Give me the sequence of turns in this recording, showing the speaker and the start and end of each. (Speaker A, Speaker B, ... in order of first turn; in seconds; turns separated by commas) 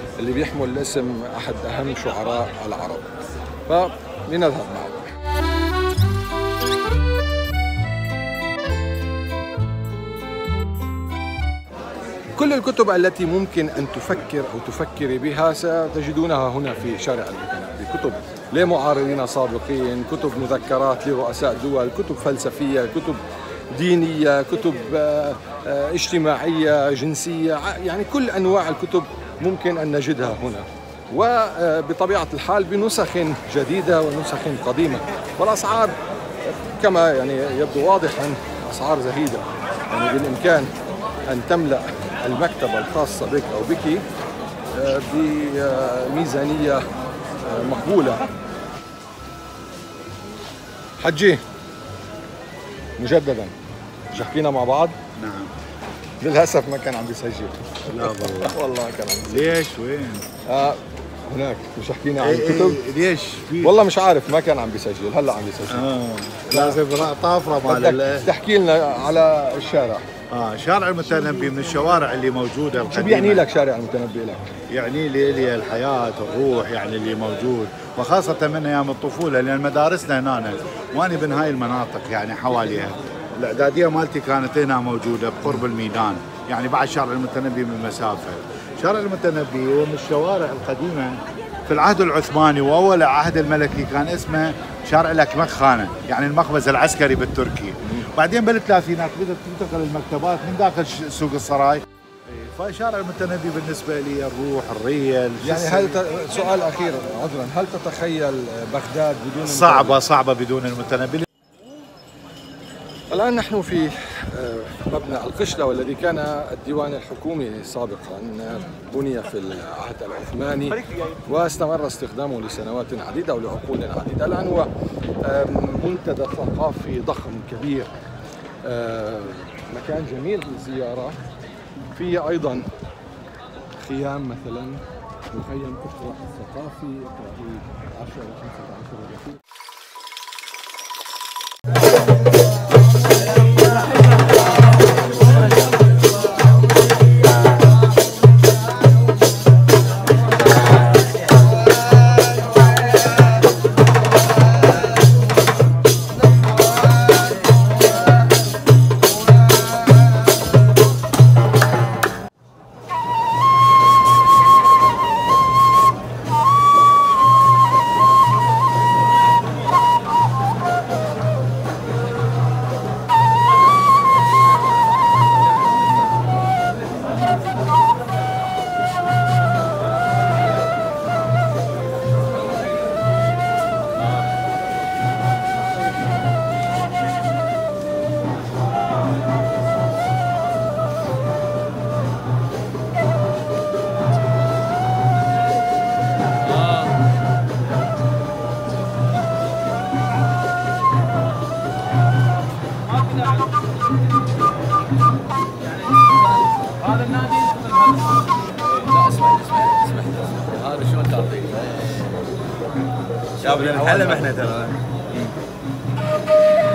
Speaker A: 0.2-3.1, Speaker A: 3.7-5.1, Speaker A: 12.3-40.7, Speaker A: 41.3-44.0, Speaker A: 44.7-46.8, Speaker A: 47.4-48.3, Speaker A: 51.0-51.4, Speaker A: 53.0-53.5, Speaker A: 54.1-55.0, Speaker B: 55.2-55.5, Speaker A: 56.2-59.5, Speaker B: 57.9-58.5, Speaker B: 59.3-60.2, Speaker A: 60.5-62.8, Speaker B: 62.2-63.8, Speaker A: 63.6-65.8, Speaker B: 65.7-68.3, Speaker A: 66.5-66.8, Speaker A: 67.6-70.1, Speaker B: 70.3-73.5, Speaker A: 72.9-74.5, Speaker B: 74.7-106.0, Speaker A: 105.4-110.0, Speaker B: 109.4-111.3, Speaker A: 113.1-124.7, Speaker A: 125.2-127.9, Speaker A: 128.6-131.2, Speaker A: 131.9-132.7, Speaker A: 133.8-139.4, Speaker C: 207.1-207.3, Speaker C: 208.7-212.1, Speaker C: 213.4-215.3